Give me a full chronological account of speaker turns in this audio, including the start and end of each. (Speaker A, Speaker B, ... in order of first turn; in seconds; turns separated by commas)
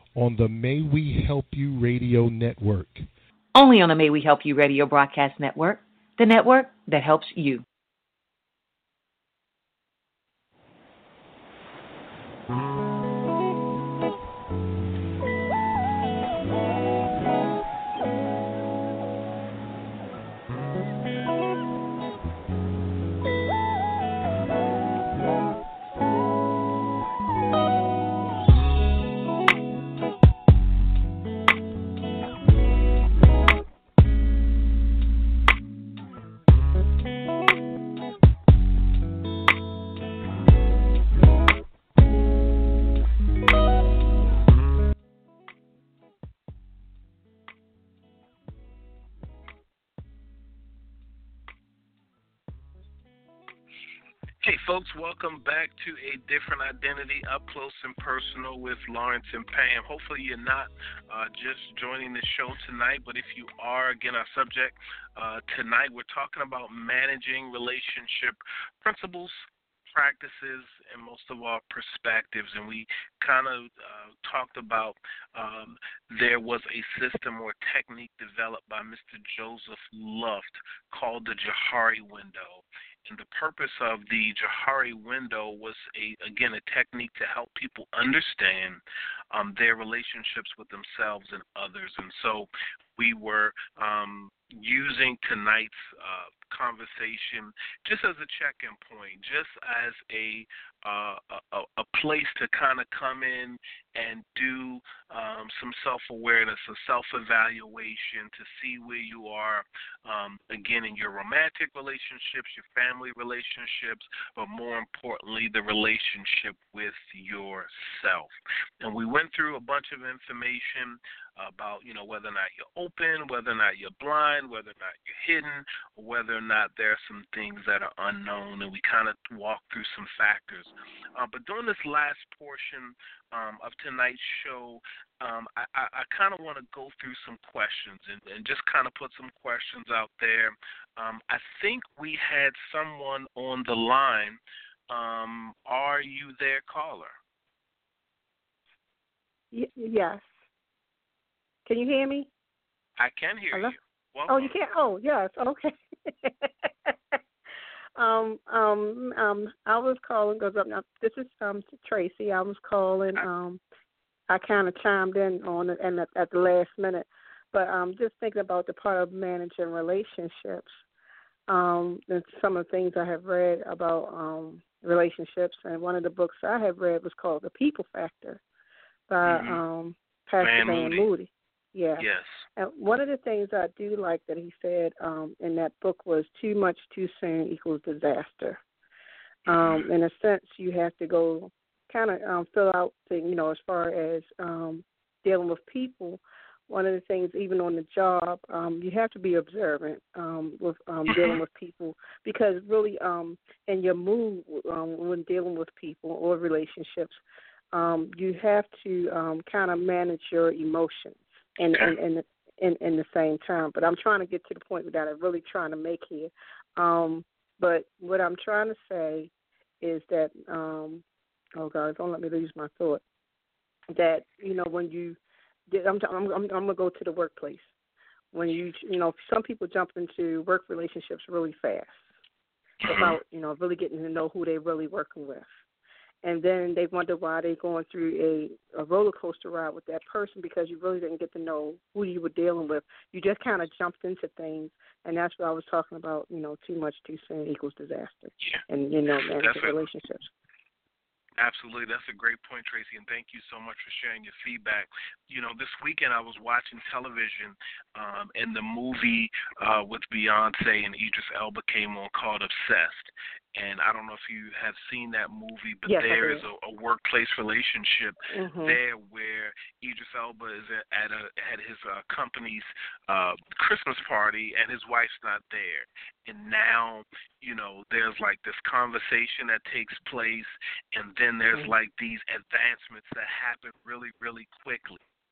Speaker A: 0.2-3.1, Speaker B: 3.5-7.6, Speaker C: 54.4-88.8, Speaker C: 89.3-144.4, Speaker C: 144.9-147.2, Speaker D: 149.5-150.2, Speaker D: 151.7-152.3, Speaker C: 153.0-154.5, Speaker D: 154.3-156.9, Speaker D: 158.0-163.6, Speaker D: 164.3-170.8, Speaker D: 171.5-178.4, Speaker D: 179.1-182.0, Speaker C: 179.2-179.6, Speaker C: 180.4-181.1, Speaker C: 182.0-182.4, Speaker D: 182.6-188.6, Speaker C: 189.5-189.9, Speaker D: 189.5-207.2, Speaker C: 201.1-201.4, Speaker D: 207.7-221.0, Speaker D: 221.6-223.0, Speaker D: 223.9-227.7, Speaker D: 228.3-232.1, Speaker C: 232.8-233.2, Speaker D: 232.9-235.5, Speaker D: 236.2-250.3, Speaker C: 249.4-249.8, Speaker C: 251.4-285.0, Speaker D: 265.9-266.4, Speaker D: 268.3-268.8